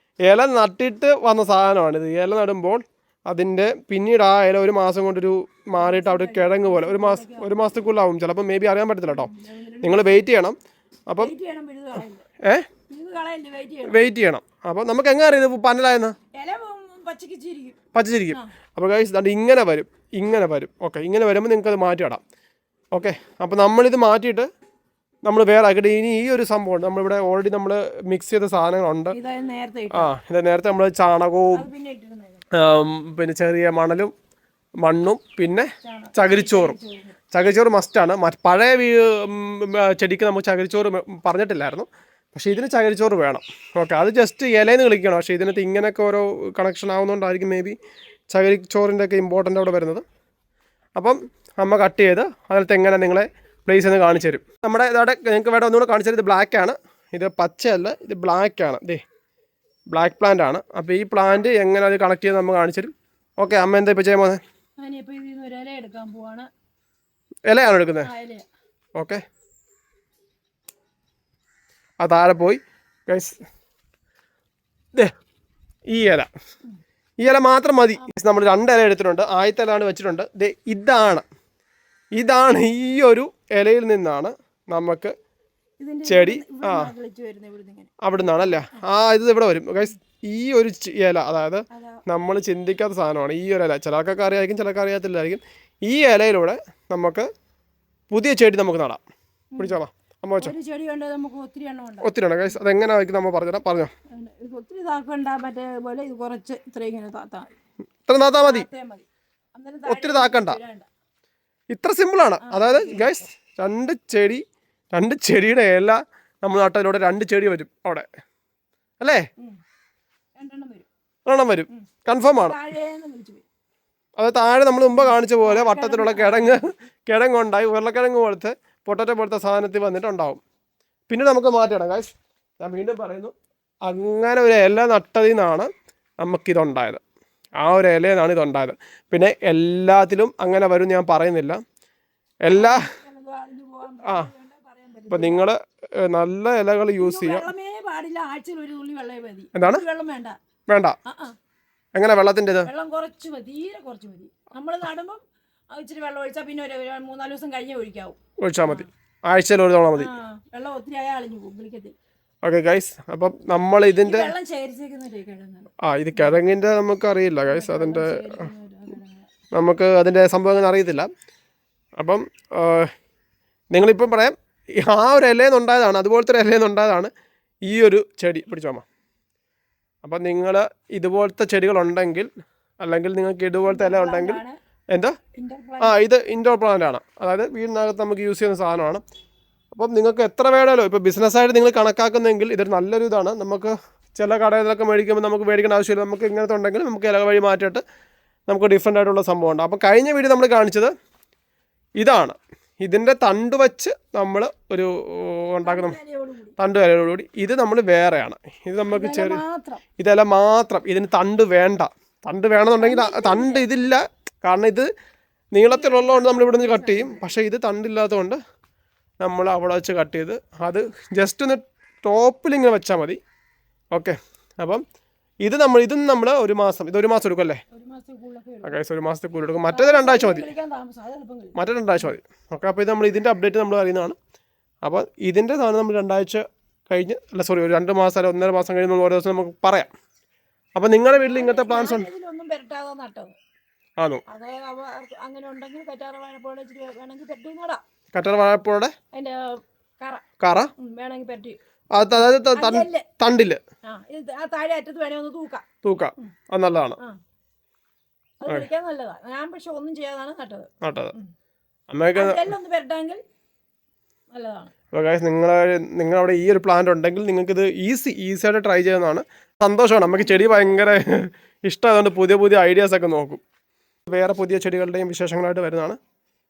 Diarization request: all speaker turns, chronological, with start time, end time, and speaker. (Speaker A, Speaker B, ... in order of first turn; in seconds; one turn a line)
Speaker A: 0.3-9.3
Speaker B: 5.7-7.5
Speaker B: 9.1-10.3
Speaker A: 9.8-10.6
Speaker B: 11.2-12.2
Speaker B: 12.9-14.1
Speaker A: 13.8-16.1
Speaker B: 16.3-17.8
Speaker A: 17.9-22.2
Speaker A: 22.9-24.5
Speaker A: 25.2-29.1
Speaker B: 29.1-30.1
Speaker A: 29.9-31.7
Speaker B: 31.5-32.4
Speaker A: 32.5-34.1
Speaker A: 34.8-36.8
Speaker B: 35.8-37.2
Speaker A: 37.3-47.7
Speaker A: 48.3-50.0
Speaker A: 51.0-59.0
Speaker A: 59.9-64.4
Speaker B: 64.8-66.5
Speaker A: 67.5-68.1
Speaker B: 68.0-68.4
Speaker A: 72.0-73.3
Speaker A: 75.9-76.3
Speaker A: 77.2-81.2
Speaker A: 82.1-85.1
Speaker B: 85.8-88.8
Speaker A: 86.1-86.9
Speaker A: 88.0-97.3
Speaker B: 91.7-92.0
Speaker A: 98.1-99.0
Speaker B: 99.5-99.8
Speaker A: 99.6-100.5
Speaker B: 100.4-102.6
Speaker A: 102.0-103.9
Speaker B: 104.1-107.5
Speaker A: 108.1-108.7
Speaker B: 108.4-110.9
Speaker A: 109.9-110.6
Speaker A: 111.7-118.1
Speaker B: 112.4-113.2
Speaker B: 120.4-120.9
Speaker A: 121.2-122.6
Speaker B: 121.7-123.4
Speaker A: 124.2-130.4
Speaker B: 124.9-126.6
Speaker A: 131.1-133.3
Speaker A: 133.8-135.7
Speaker A: 136.2-137.0
Speaker A: 137.6-141.6
Speaker A: 142.4-142.8
Speaker B: 142.5-145.5
Speaker A: 145.1-147.5
Speaker B: 147.0-150.3
Speaker A: 149.5-149.8
Speaker A: 150.7-150.9
Speaker B: 151.1-151.3
Speaker A: 151.9-152.7
Speaker B: 152.6-155.2
Speaker B: 155.7-158.9
Speaker A: 158.4-160.1
Speaker B: 159.9-161.9
Speaker A: 162.4-164.3
Speaker B: 163.9-166.4
Speaker A: 165.8-168.5
Speaker B: 167.4-169.3
Speaker A: 169.5-171.1
Speaker A: 172.0-172.9
Speaker A: 173.7-177.1
Speaker A: 177.7-178.8
Speaker A: 180.0-182.3
Speaker A: 182.8-184.4
Speaker B: 183.6-184.6
Speaker B: 185.4-186.0
Speaker A: 185.8-189.0
Speaker A: 189.7-197.8
Speaker A: 198.5-200.9
Speaker A: 202.0-206.0
Speaker B: 205.6-206.5
Speaker A: 206.6-209.4
Speaker B: 208.9-209.8
Speaker A: 210.0-214.9
Speaker B: 212.8-213.7
Speaker A: 215.5-218.4
Speaker B: 215.6-217.3
Speaker A: 219.2-223.2
Speaker A: 223.9-224.8
Speaker A: 225.4-227.6
Speaker B: 227.7-228.8
Speaker A: 228.6-230.5
Speaker B: 229.7-232.2
Speaker A: 231.6-234.2
Speaker A: 234.8-239.9
Speaker A: 240.8-242.1
Speaker B: 241.1-243.3
Speaker B: 244.3-247.8
Speaker A: 248.1-248.9
Speaker B: 249.1-250.2
Speaker A: 250.4-250.7
Speaker B: 250.8-251.6
Speaker A: 252.0-253.6
Speaker B: 252.5-253.1
Speaker B: 253.8-255.6
Speaker A: 255.8-257.0
Speaker B: 258.4-261.3
Speaker A: 260.8-261.1
Speaker A: 261.9-262.5
Speaker B: 262.1-263.2
Speaker B: 264.3-264.7
Speaker A: 264.9-273.4
Speaker B: 270.0-271.0
Speaker A: 274.1-276.0